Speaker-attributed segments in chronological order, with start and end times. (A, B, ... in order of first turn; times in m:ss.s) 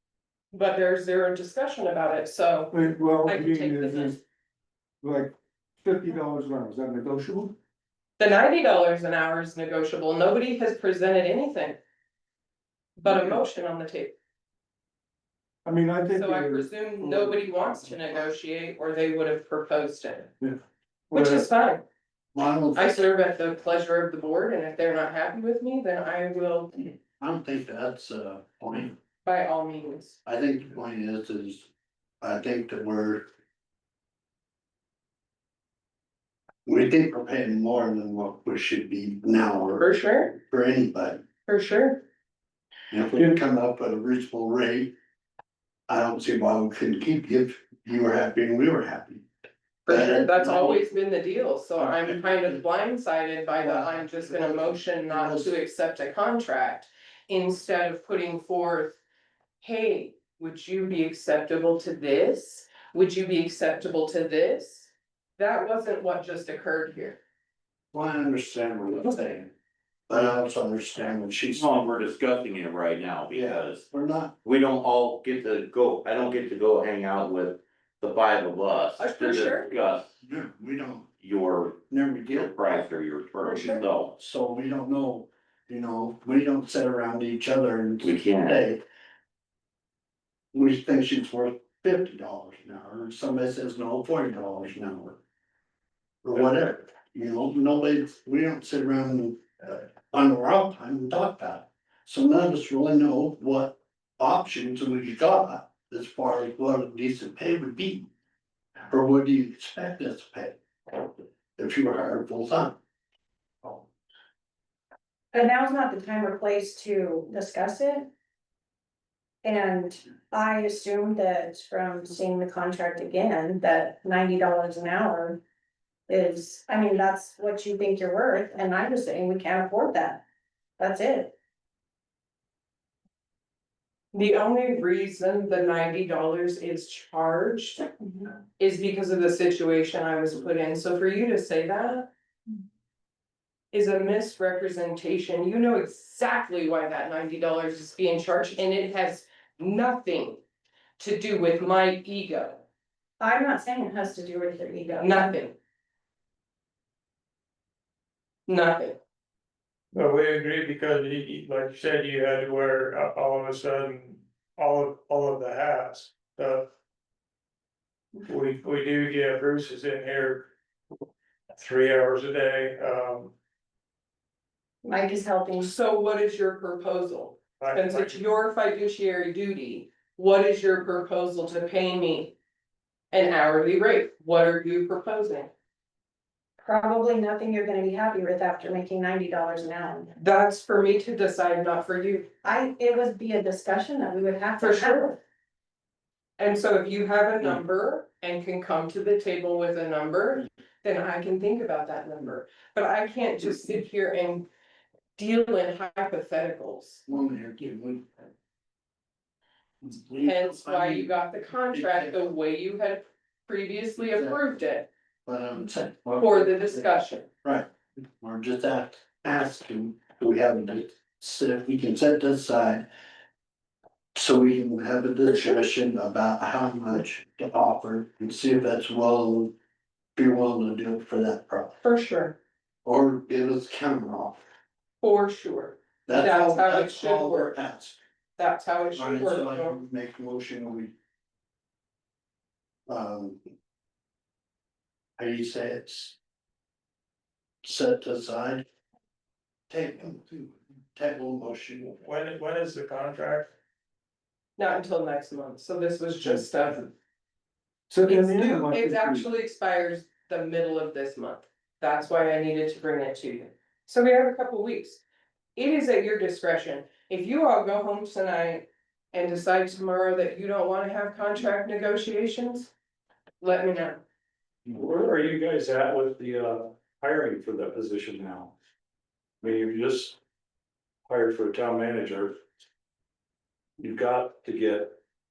0:00.5-0:02.7 A
0:02.7-0:04.2 B
0:03.2-0:04.2 A
0:05.0-0:07.5 B
0:08.2-0:11.8 A
0:13.0-0:14.1 A
0:15.6-0:17.4 B
0:16.1-0:20.3 A
0:21.1-0:21.8 A
0:21.1-0:21.4 B
0:22.3-0:22.9 C
0:22.7-0:26.9 A
0:27.2-0:29.0 C
0:29.2-0:30.2 A
0:30.2-0:31.7 C
0:32.2-0:33.2 C
0:36.6-0:41.2 C
0:39.8-0:40.3 A
0:41.5-0:42.0 A
0:42.9-0:44.9 C
0:45.9-0:49.3 C
0:49.9-0:50.8 C
0:49.9-0:59.0 A
0:51.8-0:52.6 C
0:53.6-0:55.6 C
0:59.6-1:07.2 A
1:07.9-1:09.5 C
1:10.1-1:11.7 C
1:11.6-1:13.8 D
1:13.3-1:14.3 C
1:14.4-1:20.1 D
1:19.0-1:19.7 A
1:20.2-1:21.1 C
1:21.2-1:21.8 D
1:21.9-1:22.7 C
1:22.4-1:24.1 D
1:23.4-1:23.8 A
1:24.2-1:28.8 C
1:28.0-1:28.6 D
1:30.5-1:35.2 C
1:36.2-1:48.1 C
1:48.9-1:52.8 C
1:55.3-1:58.1 E
1:59.4-2:05.4 E
2:06.1-2:10.2 E
2:10.8-2:11.3 E
2:14.1-2:17.9 A
2:18.6-2:22.1 A
2:23.7-2:30.4 A
2:31.0-2:32.6 A
2:33.2-2:35.3 E
2:35.0-2:35.5 A
2:38.5-2:39.0 A
2:39.9-2:46.7 F
2:48.2-2:50.5 F
2:51.6-2:53.3 F
2:54.8-2:55.7 E
2:55.6-3:02.3 A
2:57.6-2:58.2 F
3:03.1-3:05.5 A
3:06.6-3:10.1 E
3:10.2-3:12.3 A
3:12.4-3:15.1 E
3:14.6-3:15.2 A
3:16.4-3:24.5 A
3:25.2-3:27.0 A
3:27.1-3:28.1 C
3:29.8-3:31.1 C
3:30.2-3:34.9 A
3:31.7-3:32.3 C
3:34.1-3:34.4 C
3:35.2-3:36.9 C
3:36.2-3:37.2 A
3:37.4-3:37.7 C
3:38.2-3:42.8 C
3:44.1-3:49.5 C
3:45.3-3:45.6 A
3:50.2-3:51.8 C
3:51.8-3:52.4 A
3:52.8-3:54.4 C
3:55.0-3:57.5 A
3:56.0-3:58.0 C
3:58.4-3:59.8 A
3:58.9-4:00.9 C
4:02.9-4:03.4 C
4:05.2-4:06.2 C
4:07.6-4:08.6 C
4:09.7-4:11.9 C
4:11.8-4:13.5 F
4:14.6-4:16.9 A
4:17.9-4:19.3 B
4:18.0-4:25.0 A
4:25.6-4:32.7 A
4:33.4-4:34.0 A
4:34.6-4:38.5 G
4:39.4-4:40.2 G
4:41.0-4:42.4 G
4:43.8-4:45.0 G